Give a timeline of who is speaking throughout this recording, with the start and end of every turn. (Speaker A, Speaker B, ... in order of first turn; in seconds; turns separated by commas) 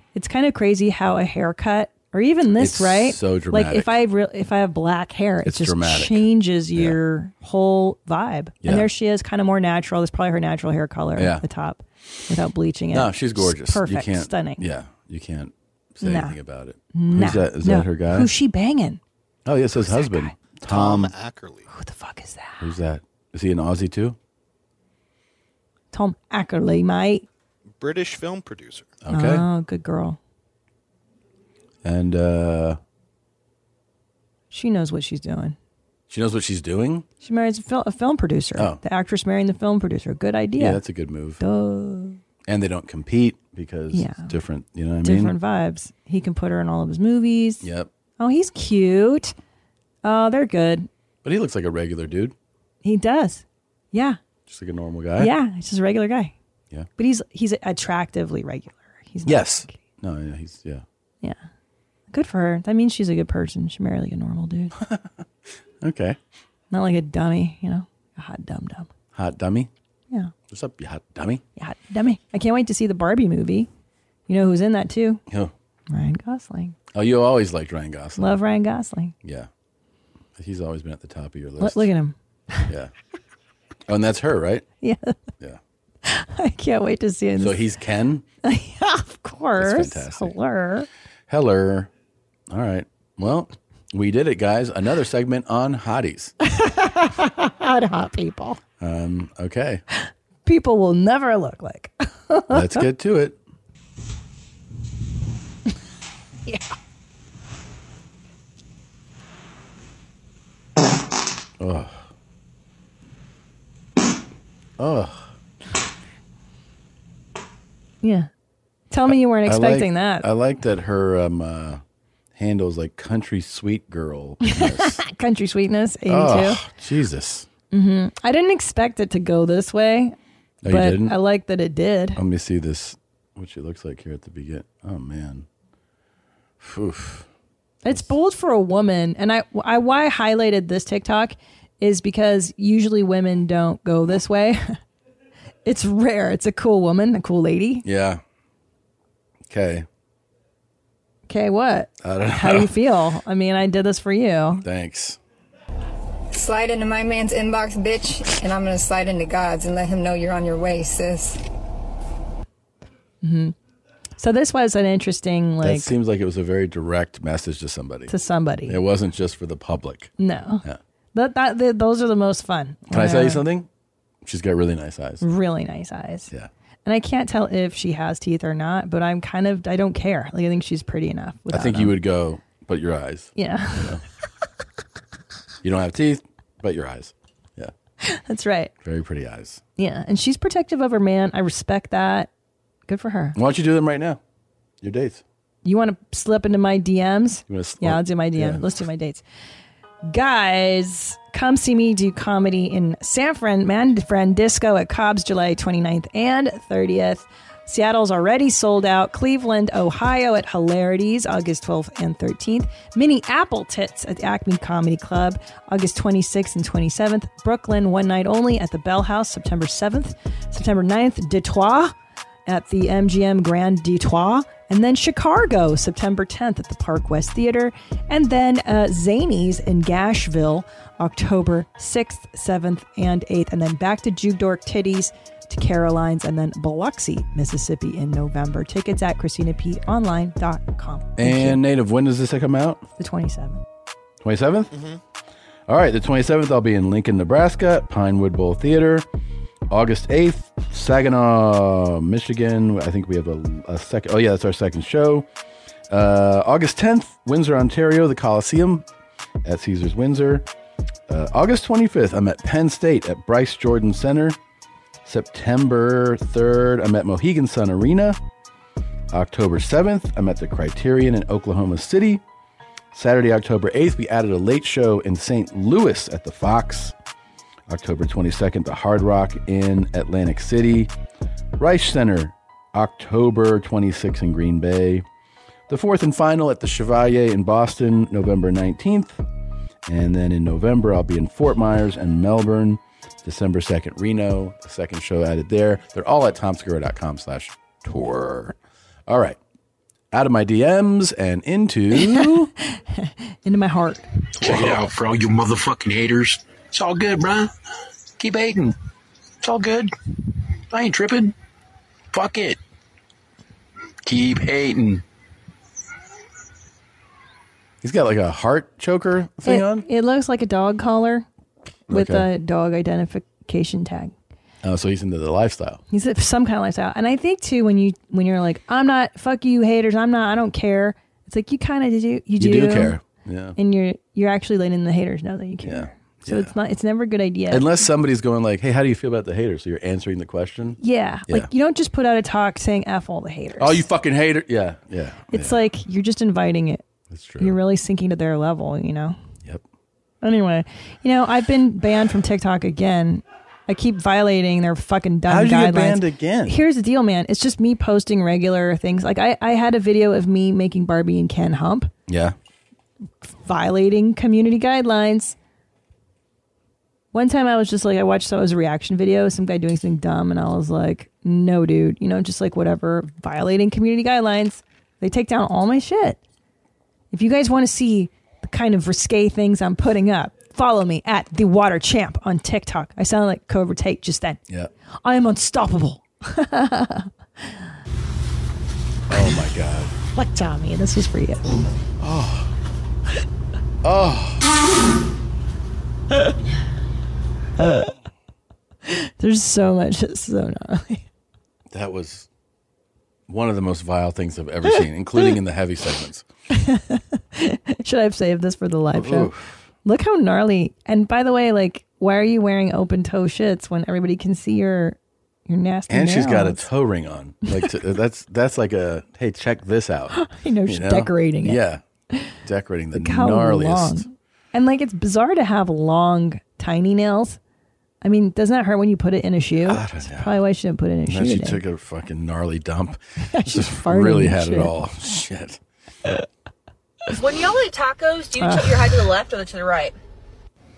Speaker A: 0.1-14.6, Speaker B: 2.5-3.9, Speaker B: 5.4-7.0, Speaker B: 8.6-8.9, Speaker B: 11.2-11.4, Speaker B: 12.9-18.3, Speaker A: 16.0-16.4, Speaker A: 16.9-19.0, Speaker B: 19.4-21.1, Speaker A: 19.8-20.3, Speaker C: 20.7-21.7, Speaker A: 21.7-22.7, Speaker B: 22.6-24.2, Speaker A: 25.9-27.2, Speaker C: 27.8-28.9, Speaker B: 29.0-29.4, Speaker A: 29.1-30.2, Speaker B: 31.8-32.8, Speaker A: 34.5-35.6, Speaker B: 36.1-37.1, Speaker A: 37.2-40.8, Speaker B: 40.6-41.4, Speaker A: 41.4-42.2, Speaker B: 42.5-45.3, Speaker A: 43.9-44.3, Speaker A: 45.0-49.4, Speaker B: 47.6-47.9, Speaker A: 50.0-50.9, Speaker B: 51.2-52.3, Speaker A: 52.8-54.2, Speaker B: 54.5-55.3, Speaker A: 55.2-56.4, Speaker A: 57.0-59.8, Speaker B: 59.2-60.8, Speaker A: 62.1-64.8, Speaker B: 64.8-65.2, Speaker B: 65.8-66.2, Speaker A: 66.7-68.9, Speaker B: 69.1-69.7, Speaker B: 70.5-71.4, Speaker A: 71.6-73.7, Speaker A: 74.3-75.2, Speaker B: 75.3-75.5, Speaker A: 75.9-76.8, Speaker B: 76.9-78.4, Speaker A: 78.2-79.2, Speaker B: 79.2-79.5, Speaker B: 80.4-81.9, Speaker A: 81.6-82.7, Speaker B: 82.7-82.9, Speaker B: 83.9-84.7, Speaker A: 84.8-85.2, Speaker A: 86.0-87.6, Speaker B: 87.4-88.2, Speaker A: 88.4-90.9, Speaker B: 89.6-90.3, Speaker B: 91.3-91.9, Speaker B: 92.5-96.3, Speaker A: 96.5-98.6, Speaker B: 98.8-99.8, Speaker A: 100.0-102.8, Speaker B: 102.5-103.4, Speaker B: 111.6-112.0, Speaker B: 114.8-115.2, Speaker A: 118.0-118.3, Speaker A: 118.9-120.3, Speaker B: 119.1-121.8, Speaker B: 122.3-125.0, Speaker A: 124.4-126.6, Speaker B: 126.1-127.5, Speaker A: 127.7-130.2, Speaker B: 130.6-131.2, Speaker A: 130.7-132.2, Speaker B: 132.2-135.5, Speaker B: 136.6-137.3, Speaker A: 137.8-144.8, Speaker A: 145.7-147.8, Speaker B: 147.8-148.2, Speaker B: 149.5-149.9, Speaker A: 151.3-154.7, Speaker B: 152.0-152.7, Speaker B: 154.6-155.2, Speaker D: 156.3-161.4, Speaker A: 163.2-163.6, Speaker A: 164.2-165.9, Speaker B: 165.6-168.1, Speaker A: 168.1-168.8, Speaker B: 168.7-170.1, Speaker A: 170.2-173.4, Speaker B: 172.9-173.7, Speaker B: 174.2-175.2, Speaker A: 175.2-176.3, Speaker A: 176.8-181.9, Speaker B: 181.5-184.0, Speaker A: 183.4-184.0, Speaker B: 185.6-187.7, Speaker A: 188.0-188.7, Speaker B: 188.8-189.6, Speaker A: 189.8-192.3, Speaker A: 192.9-193.4, Speaker B: 193.3-194.2, Speaker B: 194.8-195.2, Speaker A: 195.6-199.2, Speaker B: 197.5-198.7, Speaker A: 200.0-221.9, Speaker A: 222.5-241.6, Speaker B: 241.2-242.8, Speaker A: 243.0-243.6, Speaker B: 244.2-244.7, Speaker C: 244.7-245.0, Speaker B: 245.7-249.1, Speaker B: 249.7-255.3, Speaker B: 255.9-258.9, Speaker B: 259.4-260.5, Speaker B: 261.1-264.4, Speaker B: 265.0-268.2, Speaker B: 269.1-272.2, Speaker B: 272.9-276.9, Speaker B: 277.7-280.9, Speaker B: 281.6-285.1, Speaker B: 285.7-289.2, Speaker B: 289.9-298.6, Speaker B: 299.1-299.4, Speaker B: 300.1-302.5, Speaker A: 302.0-304.1, Speaker E: 304.4-307.5, Speaker B: 304.4-304.8, Speaker E: 308.2-308.8, Speaker E: 309.4-309.9, Speaker E: 310.7-311.3, Speaker E: 312.1-312.6, Speaker E: 314.0-315.0, Speaker B: 317.8-319.9, Speaker A: 319.4-321.3, Speaker B: 321.9-322.3, Speaker A: 321.9-324.2, Speaker B: 324.6-325.8, Speaker A: 325.9-333.0, Speaker B: 332.4-333.6, Speaker A: 333.6-337.7, Speaker B: 335.6-336.5, Speaker B: 337.5-341.5, Speaker A: 340.8-343.9, Speaker B: 343.6-345.6, Speaker A: 345.3-346.9, Speaker B: 347.1-347.6, Speaker A: 347.4-349.2, Speaker A: 350.2-361.9, Speaker B: 355.3-356.6, Speaker B: 362.1-362.4, Speaker A: 363.2-365.4, Speaker A: 367.1-376.2, Speaker A: 377.1-384.4, Speaker A: 385.0-387.1, Speaker B: 389.1-389.9, Speaker A: 390.1-391.5, Speaker B: 392.0-392.5, Speaker B: 393.8-394.4, Speaker A: 397.6-397.9, Speaker A: 398.9-401.1, Speaker B: 401.7-402.3, Speaker B: 403.3-406.3, Speaker A: 406.5-409.3, Speaker B: 408.9-409.6, Speaker A: 409.8-415.0, Speaker A: 415.5-416.7, Speaker B: 415.9-421.8, Speaker A: 420.1-421.6, Speaker B: 422.4-424.1, Speaker A: 422.9-427.4, Speaker A: 428.0-431.6, Speaker B: 429.6-430.4, Speaker B: 431.1-435.6, Speaker A: 433.3-434.7, Speaker F: 437.1-439.9, Speaker A: 438.4-438.8